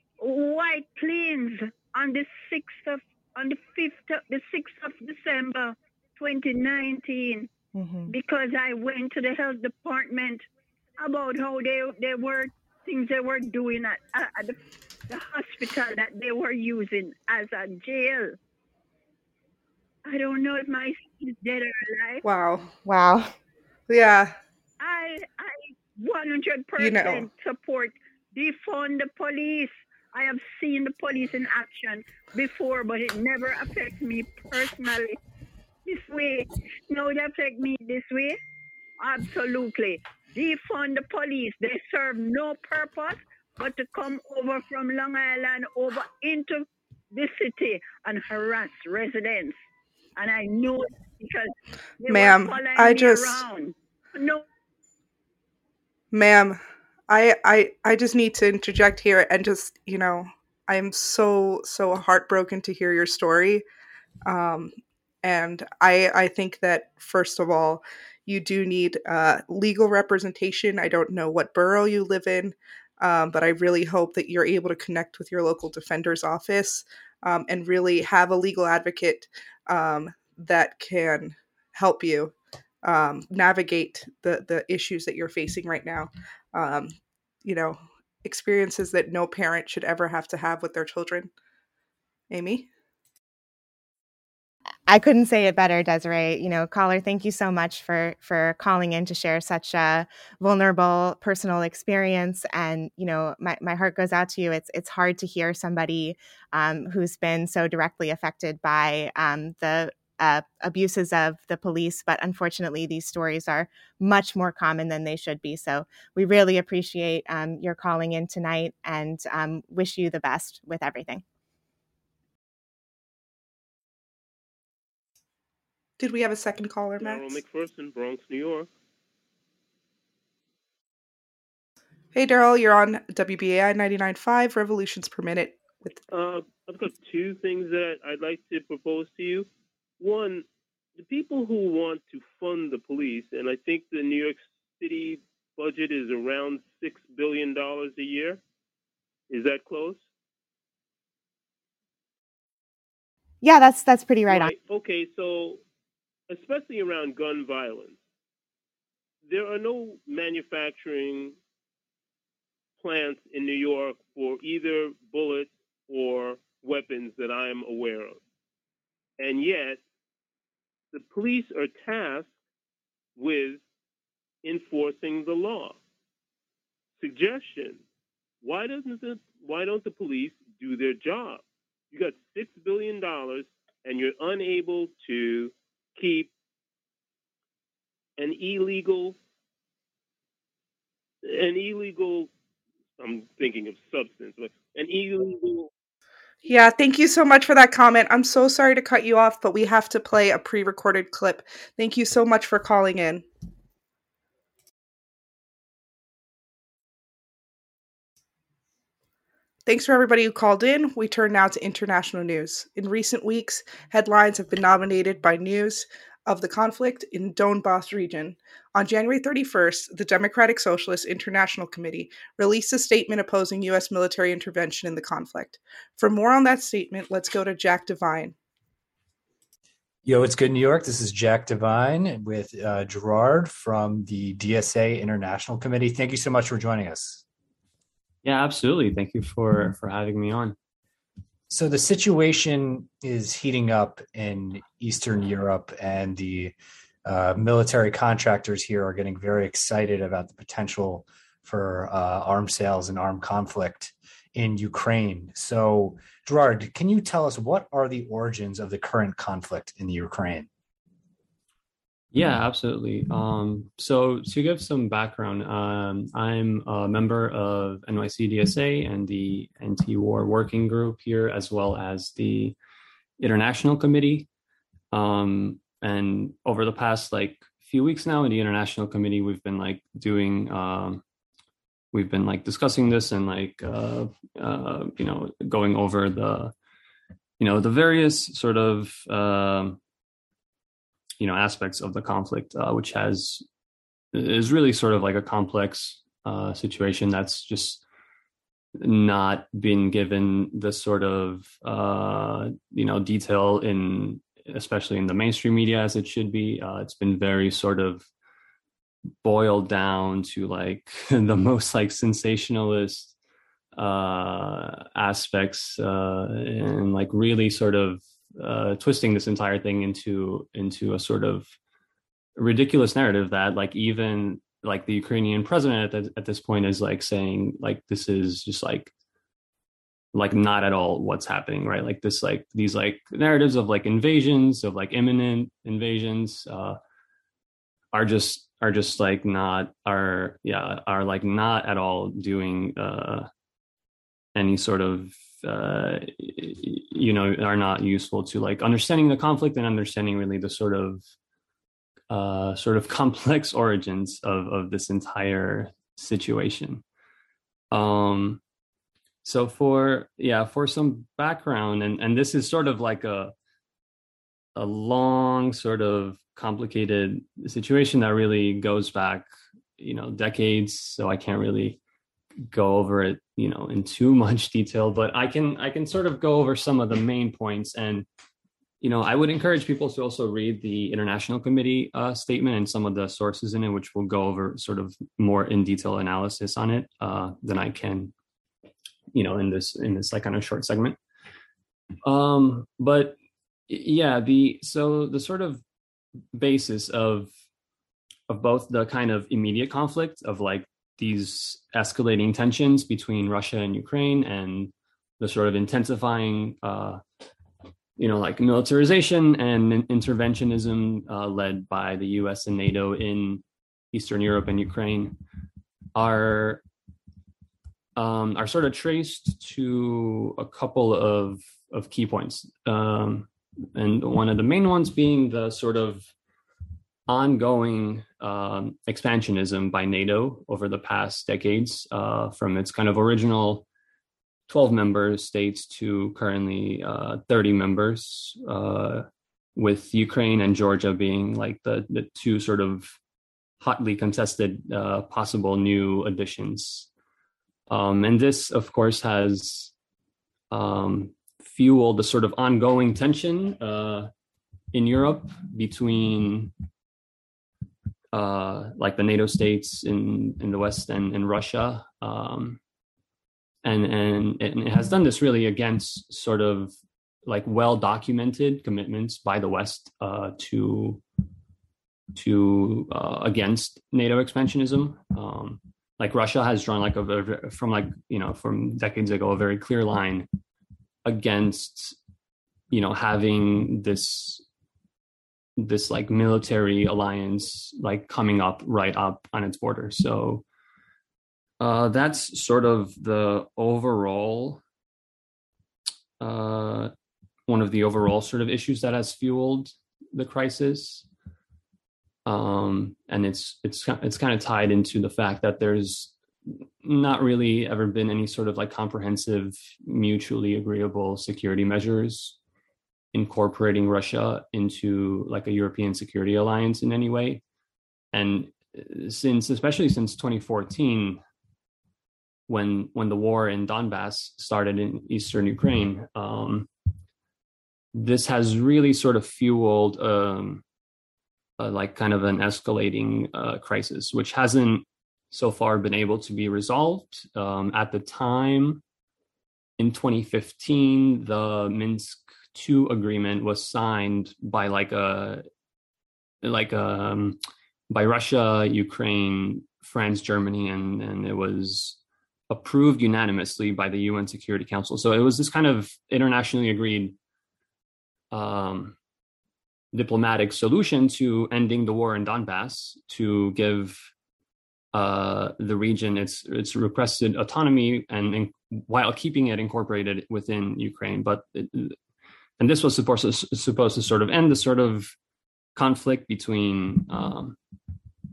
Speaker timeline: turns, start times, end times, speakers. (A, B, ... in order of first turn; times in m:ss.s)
0:00.2-0:07.5 A
0:07.8-0:08.1 B
0:08.1-0:10.4 A
0:11.0-0:14.6 A
0:15.1-0:18.4 A
0:20.0-0:22.2 A
0:22.2-0:22.7 C
0:22.8-0:23.3 B
0:23.9-0:24.4 C
0:24.8-0:35.2 A
0:26.8-0:27.2 C
0:35.8-0:38.4 A
0:39.0-0:49.6 A
0:50.2-0:54.4 A
0:52.1-0:53.4 C
0:56.1-1:03.6 C
1:04.2-1:26.9 C
1:27.4-1:31.3 C
1:32.3-1:32.7 C
1:34.9-2:01.2 B
2:06.0-2:07.4 C
2:07.0-2:08.7 D
2:12.1-2:16.0 C
2:16.1-2:19.5 D
2:20.0-2:28.4 D
2:29.3-2:30.0 D
2:33.4-2:34.5 B
2:34.3-2:35.6 D
2:36.3-2:38.0 D
2:39.3-2:41.4 D
2:42.8-2:48.2 D
2:49.2-2:49.8 D
2:50.9-2:52.3 D
2:53.2-2:53.6 D
2:54.4-2:55.8 D
2:57.0-2:57.8 D
2:58.4-3:06.3 D
3:08.2-3:09.2 D
3:11.2-3:12.3 D
3:13.0-3:15.7 D
3:16.4-3:23.2 C
3:29.7-3:48.4 C
3:50.0-3:57.2 E
3:58.2-4:00.6 F
4:01.5-4:20.5 E
4:22.1-4:32.6 F
4:33.2-4:34.3 F
4:34.9-4:41.0 F
4:41.9-4:46.5 F
4:47.4-4:49.8 F
4:51.2-4:53.4 F
4:54.1-4:57.8 F
4:58.8-5:08.1 F
5:09.2-5:13.2 F
5:13.7-5:21.6 F
5:22.4-5:28.9 F
5:30.1-5:36.8 F
5:37.9-5:43.3 F
5:44.4-5:51.0 F
5:52.1-5:56.8 F
5:57.7-5:58.4 F
5:59.2-6:03.3 F
6:04.6-6:11.8 F
6:12.5-6:18.1 F
6:18.8-6:28.1 F
6:29.1-6:31.0 F
6:32.0-6:33.2 F
6:33.7-6:35.6 F
6:36.3-6:37.3 F
6:38.3-6:47.0 F
6:48.0-6:55.2 F
6:56.0-6:56.6 F
6:58.0-7:06.1 F
7:07.1-7:13.7 F
7:14.5-7:23.0 F
7:23.6-7:26.9 F
7:27.7-7:29.7 F
7:30.5-7:34.1 F
7:34.7-7:36.5 F
7:38.1-7:42.6 F
7:43.6-7:46.7 F
7:47.2-7:51.0 F
7:52.1-8:00.3 F
8:01.0-8:02.0 F
8:02.7-8:04.4 F
8:05.6-8:10.4 F
8:11.6-8:14.6 F
8:16.2-8:16.9 F
8:17.5-8:21.1 F
8:22.3-8:32.4 F
8:33.1-8:37.4 F
8:38.1-8:41.2 F
8:42.5-8:46.7 F
8:47.9-8:50.6 F
8:51.6-8:58.8 F
8:59.8-9:05.4 F
9:06.4-9:07.4 F
9:07.9-9:12.0 F
9:12.5-9:17.2 F
9:18.3-9:19.0 F
9:19.9-9:24.1 F
9:24.9-9:32.0 F
9:32.6-9:35.2 F
9:35.8-9:37.6 F